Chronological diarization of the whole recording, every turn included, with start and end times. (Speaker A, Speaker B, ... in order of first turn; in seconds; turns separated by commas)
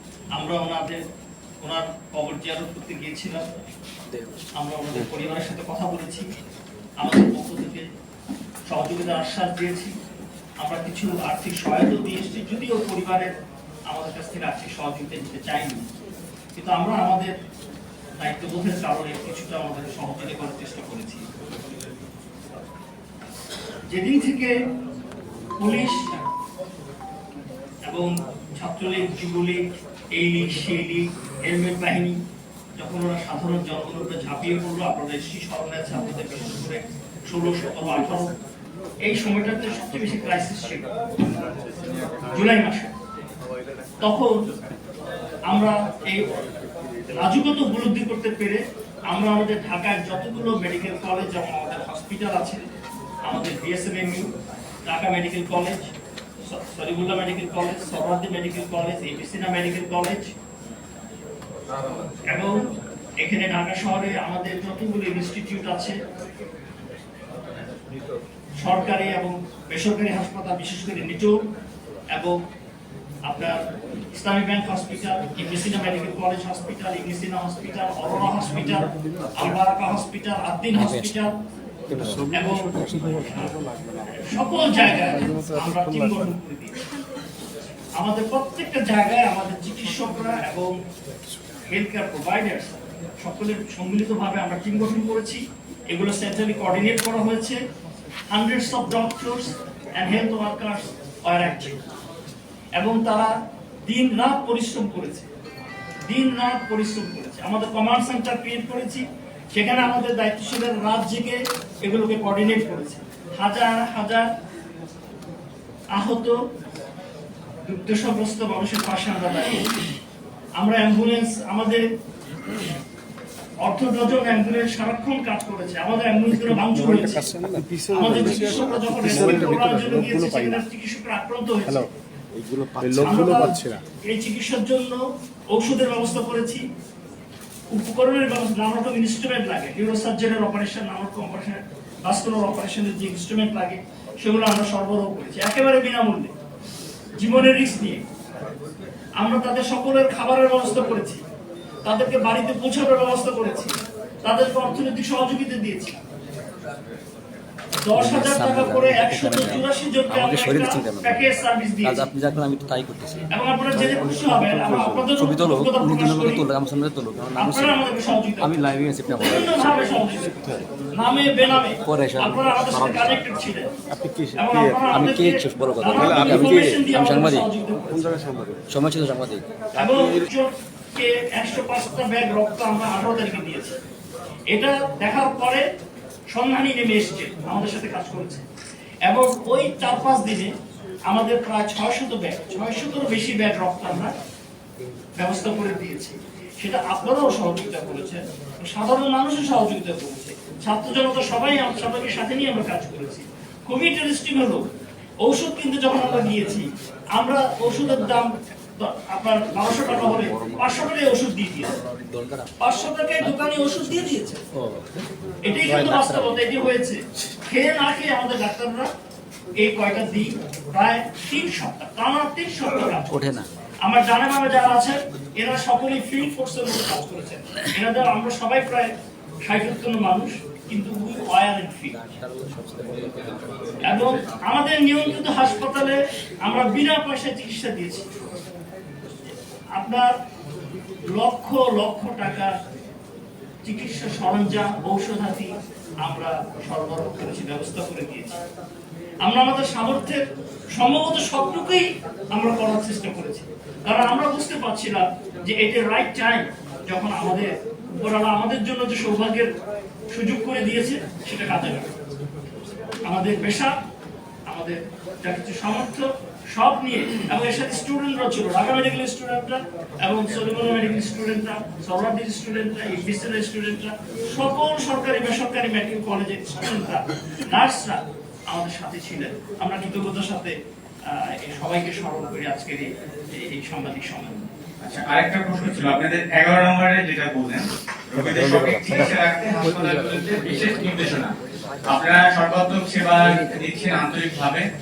Speaker A: 0.3-1.0, Speaker A: 1.6-3.5, Speaker B: 4.1-4.4, Speaker A: 4.6-6.3, Speaker A: 7.0-7.9, Speaker A: 8.7-9.9, Speaker A: 10.6-13.3, Speaker A: 13.9-15.9, Speaker A: 16.5-17.3, Speaker A: 18.2-21.3, Speaker A: 23.9-24.5, Speaker A: 25.6-26.1, Speaker A: 27.9-29.6, Speaker A: 30.1-32.2, Speaker A: 32.8-38.3, Speaker A: 39.0-40.9, Speaker A: 42.3-42.9, Speaker A: 44.0-44.3, Speaker A: 45.5-46.3, Speaker A: 47.2-52.6, Speaker A: 53.3-54.3, Speaker A: 54.9-55.9, Speaker A: 56.5-60.3, Speaker A: 62.3-62.5, Speaker A: 63.2-66.0, Speaker A: 68.6-71.3, Speaker A: 73.3-73.6, Speaker A: 74.1-81.4, Speaker B: 80.7-81.2, Speaker B: 81.9-82.3, Speaker C: 82.0-84.0, Speaker A: 82.3-83.5, Speaker A: 84.2-86.8, Speaker C: 85.2-86.0, Speaker A: 88.0-90.7, Speaker A: 91.7-95.4, Speaker A: 95.9-97.6, Speaker A: 98.3-101.8, Speaker A: 102.8-103.3, Speaker A: 103.9-105.3, Speaker A: 106.1-114.3, Speaker A: 115.9-116.3, Speaker A: 117.7-119.7, Speaker A: 120.6-121.8, Speaker A: 123.6-127.3, Speaker C: 126.4-130.6, Speaker A: 127.9-131.9, Speaker C: 132.4-133.8, Speaker A: 132.9-135.0, Speaker A: 135.5-136.6, Speaker A: 137.7-146.3, Speaker A: 147.2-148.0, Speaker A: 149.2-151.2, Speaker A: 151.8-156.0, Speaker A: 157.8-162.1, Speaker B: 157.9-161.2, Speaker B: 161.8-163.2, Speaker A: 163.3-166.4, Speaker C: 163.9-165.0, Speaker B: 165.2-167.8, Speaker A: 167.4-168.5, Speaker B: 168.4-169.9, Speaker A: 169.2-173.7, Speaker B: 171.8-173.2, Speaker C: 174.0-174.8, Speaker A: 174.3-178.1, Speaker B: 174.9-177.4, Speaker C: 176.2-176.5, Speaker C: 177.9-178.6, Speaker B: 178.7-179.4, Speaker A: 179.7-183.7, Speaker A: 184.5-185.6, Speaker A: 186.3-188.4, Speaker A: 189.1-190.5, Speaker A: 191.1-194.1, Speaker A: 195.2-204.7, Speaker A: 205.2-211.8, Speaker B: 209.8-210.8, Speaker B: 211.9-212.5, Speaker A: 212.6-214.4, Speaker B: 213.2-215.0, Speaker A: 215.4-218.9, Speaker B: 215.7-216.5, Speaker A: 219.6-223.3, Speaker B: 223.1-223.5, Speaker A: 223.8-228.9, Speaker A: 229.4-232.0, Speaker B: 231.9-234.2, Speaker A: 233.8-238.1, Speaker A: 239.8-240.1, Speaker A: 241.1-242.5, Speaker A: 243.6-245.5, Speaker A: 246.0-248.4, Speaker A: 249.2-250.2, Speaker A: 250.7-259.5, Speaker A: 260.1-261.9, Speaker A: 263.0-263.8, Speaker A: 264.5-280.5, Speaker A: 281.1-284.5, Speaker D: 284.8-291.3, Speaker D: 291.9-294.6